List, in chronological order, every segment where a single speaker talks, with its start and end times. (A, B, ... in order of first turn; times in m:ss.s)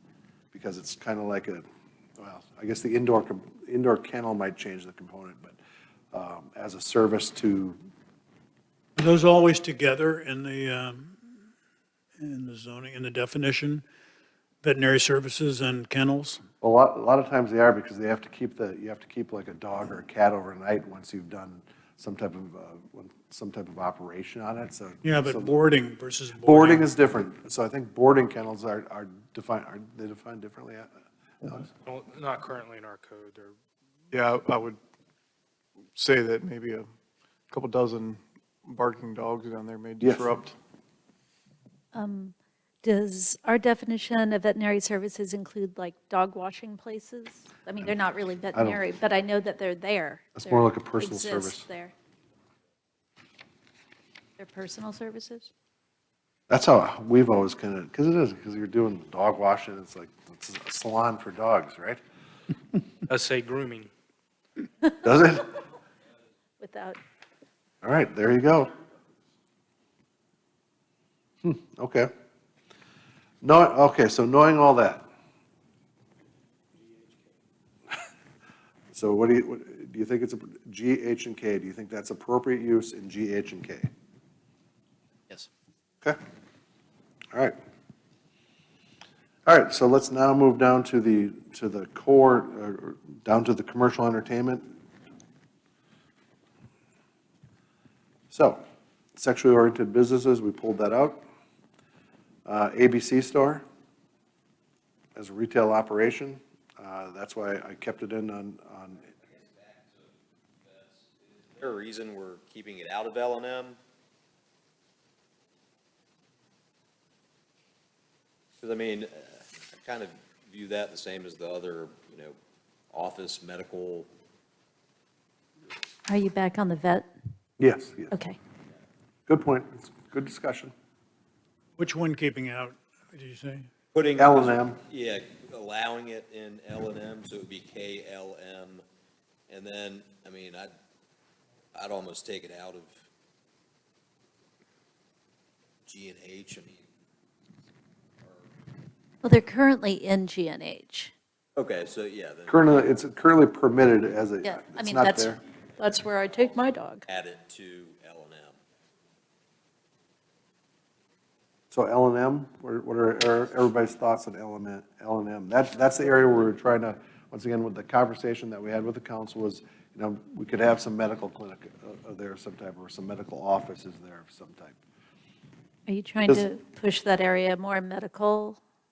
0:00.5-0:01.6 A
0:02.2-0:05.6 A
0:06.1-0:07.8 A
0:09.0-0:11.3 B
0:12.2-0:13.8 B
0:14.6-0:16.4 B
0:16.6-0:25.5 A
0:25.0-0:26.9 B
0:26.4-0:30.9 A
0:32.0-0:33.5 C
0:34.1-0:34.8 D
0:36.0-0:36.9 D
0:37.5-0:40.6 D
0:40.0-0:40.3 A
0:41.9-0:51.9 E
0:48.5-0:48.8 A
0:50.4-0:51.6 A
0:54.4-0:55.5 E
0:56.5-1:02.0 A
1:03.1-1:03.8 C
1:05.0-1:05.5 A
1:06.6-1:07.0 E
1:07.8-1:08.7 A
1:11.4-1:12.1 A
1:13.4-1:15.1 A
1:18.9-1:23.9 A
1:29.5-1:34.7 A
1:38.3-1:38.6 A
1:39.2-1:41.2 A
1:42.4-1:43.6 A
1:45.2-1:49.1 A
1:49.2-1:50.1 F
1:50.6-1:53.8 F
1:58.6-2:02.4 F
2:02.9-2:04.1 F
2:06.1-2:07.1 E
2:07.6-2:08.1 A
2:08.1-2:08.4 E
2:09.3-2:10.7 A
2:11.8-2:13.7 B
2:13.9-2:18.8 F
2:14.2-2:14.8 A
2:19.5-2:20.7 F
2:21.7-2:22.9 F
2:25.8-2:26.8 F
2:29.2-2:31.1 E
2:31.6-2:32.8 F
2:32.5-2:35.4 A
2:34.4-2:37.0 E
2:37.1-2:38.6 F
2:41.7-2:54.8 A
2:55.9-2:58.6 E